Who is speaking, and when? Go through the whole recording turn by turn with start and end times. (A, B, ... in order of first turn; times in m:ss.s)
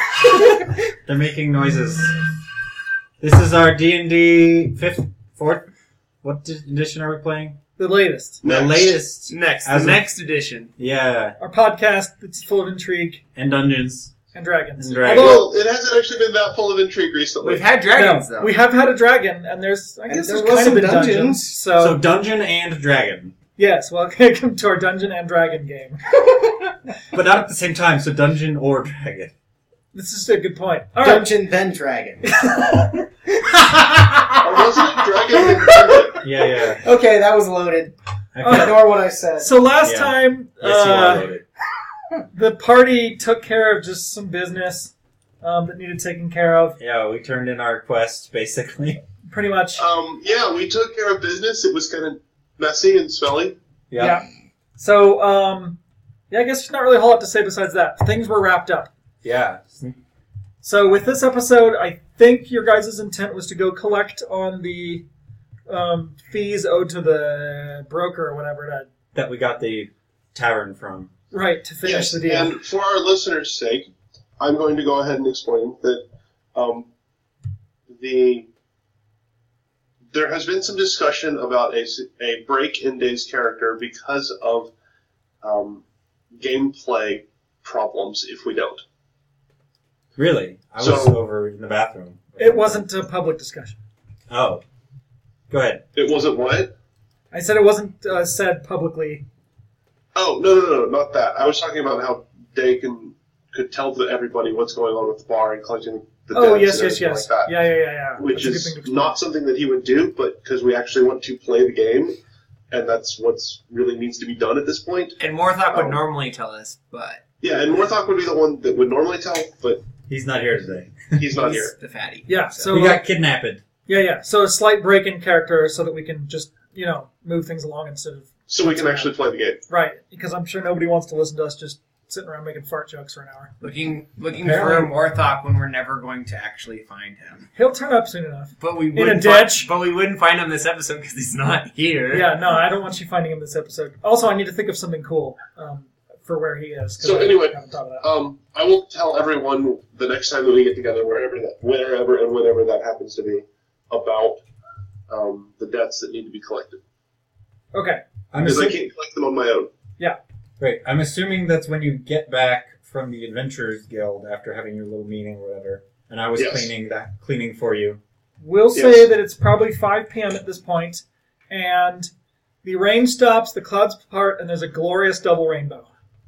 0:01.0-0:02.3 A
0:03.2-0:05.7 A
0:06.2-0:07.6 A
0:07.8-0:08.4 B
0:08.4-0:09.0 C
0:08.4-0:10.1 A
0:09.3-0:10.7 D
0:10.8-0:11.4 A
0:11.4-0:13.2 B
0:13.3-0:14.1 A
0:14.3-0:15.5 B
0:14.8-0:15.4 A
0:15.0-0:17.7 C
0:17.4-0:18.6 D
0:17.9-0:22.0 B
0:20.1-0:21.6 E
0:21.8-0:23.3 A
0:23.6-0:26.0 B
0:27.1-0:29.3 A
0:29.9-0:31.3 B
0:31.0-0:32.5 E
0:32.2-0:32.9 B
0:33.4-0:37.9 E
0:34.4-0:36.2 C
0:36.2-0:36.8 A
0:38.3-0:38.8 A
0:38.4-0:38.8 B
0:38.5-0:39.5 E
0:39.4-0:41.3 B
0:39.8-0:41.4 A
0:42.3-0:46.8 B
0:46.8-0:49.0 A
0:49.3-0:49.8 B
0:49.8-0:53.5 C
0:53.9-0:54.2 A
0:54.0-0:55.8 B
0:56.3-0:58.9 B
0:59.2-1:00.0 A
1:00.6-1:05.0 B
1:05.7-1:08.9 B
1:09.1-1:11.1 A
1:11.3-1:12.6 B
1:11.8-1:16.9 C
1:17.9-1:18.5 C
1:20.1-1:24.7 C
1:25.4-1:25.8 C
1:26.4-1:28.8 C
1:30.2-1:32.8 A
1:30.8-1:31.2 C
1:32.4-1:33.8 B
1:34.3-1:34.6 A
1:35.5-1:35.8 A
1:35.9-1:36.7 C
1:37.3-1:39.2 B
1:40.1-1:47.5 C
1:46.3-1:49.2 B
1:48.2-1:52.2 C
1:52.7-1:55.2 C
1:55.2-1:57.2 D
1:55.7-1:56.0 C
1:57.4-1:59.8 C
2:00.1-2:01.3 A
2:01.1-2:01.7 C
2:01.4-2:02.9 D
2:02.3-2:03.0 B
2:02.7-2:03.6 A
2:03.8-2:09.1 B
2:08.5-2:09.6 C
2:09.7-2:13.5 B
2:13.6-2:17.5 D
2:14.4-2:14.9 A
2:17.6-2:19.7 B
2:18.6-2:22.3 D
2:22.1-2:28.0 B
2:27.0-2:34.4 C
2:35.1-2:36.8 C
2:37.7-2:38.0 B
2:38.3-2:38.8 A
2:38.4-2:39.7 C
2:40.6-2:48.0 A
2:46.4-2:46.7 C
2:48.4-2:52.1 B
2:48.7-2:49.1 C
2:52.6-2:55.9 B